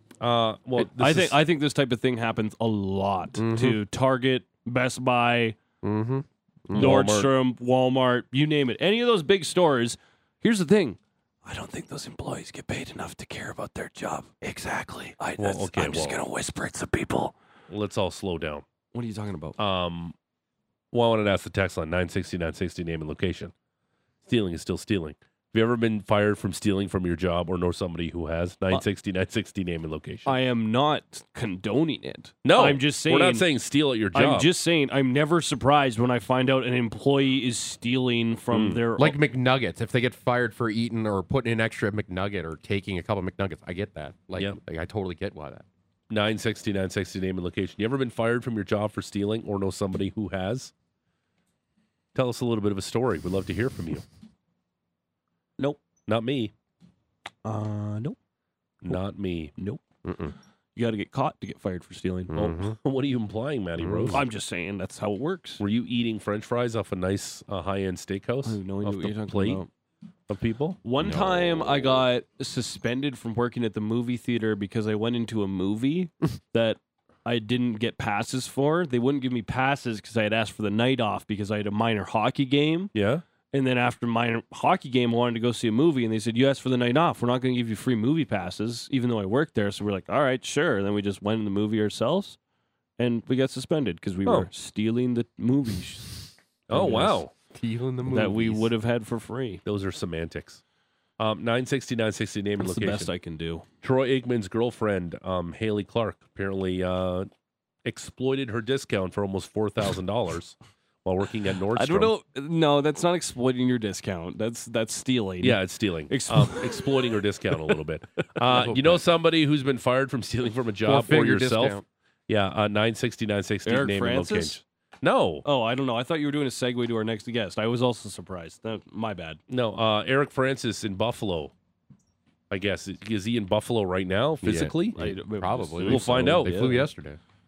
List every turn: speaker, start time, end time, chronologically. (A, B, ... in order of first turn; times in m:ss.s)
0:00.2-0:01.4 A
0:00.8-0:05.6 B
0:03.4-0:03.8 C
0:05.8-0:07.1 C
0:06.7-0:07.3 A
0:06.7-0:17.3 B
0:15.4-0:16.2 A
0:17.7-0:18.6 A
0:18.9-0:19.6 B
0:19.6-0:20.2 A
0:20.9-0:23.5 A
0:24.2-0:30.4 A
0:30.3-0:33.5 B
0:32.4-0:34.5 A
0:34.1-0:39.2 B
0:38.5-0:38.8 A
0:39.0-0:45.7 C
0:46.1-0:50.7 A
0:52.2-0:54.0 A
0:56.1-0:56.5 A
0:57.4-0:58.2 B
0:58.8-0:59.5 A
1:00.0-1:00.3 C
1:00.8-1:02.3 B
1:02.3-1:02.8 C
1:02.4-1:04.3 A
1:03.8-1:04.2 C
1:04.1-1:05.6 B
1:05.6-1:09.6 A
1:08.4-1:09.7 B
1:10.3-1:10.8 A
1:10.8-1:22.9 B
1:11.0-1:11.9 C
1:22.9-1:23.2 A
1:23.5-1:32.4 B
1:33.0-1:37.2 B
1:34.2-1:34.5 A
1:36.7-1:37.3 A
1:37.5-1:38.7 C
1:38.0-1:39.6 B
1:39.6-1:40.6 A
1:41.2-1:43.1 A
1:42.6-1:43.7 B
1:43.8-1:47.3 A
1:47.8-1:52.1 A
1:51.8-1:56.9 B
1:55.4-2:05.5 A
1:58.5-1:59.0 C
2:00.8-2:01.8 C
2:03.6-2:04.6 B
2:05.4-2:09.4 B
2:09.5-2:11.5 A
2:12.5-2:15.0 A
2:14.4-2:17.2 C
2:15.0-2:16.9 B
2:15.8-2:16.6 A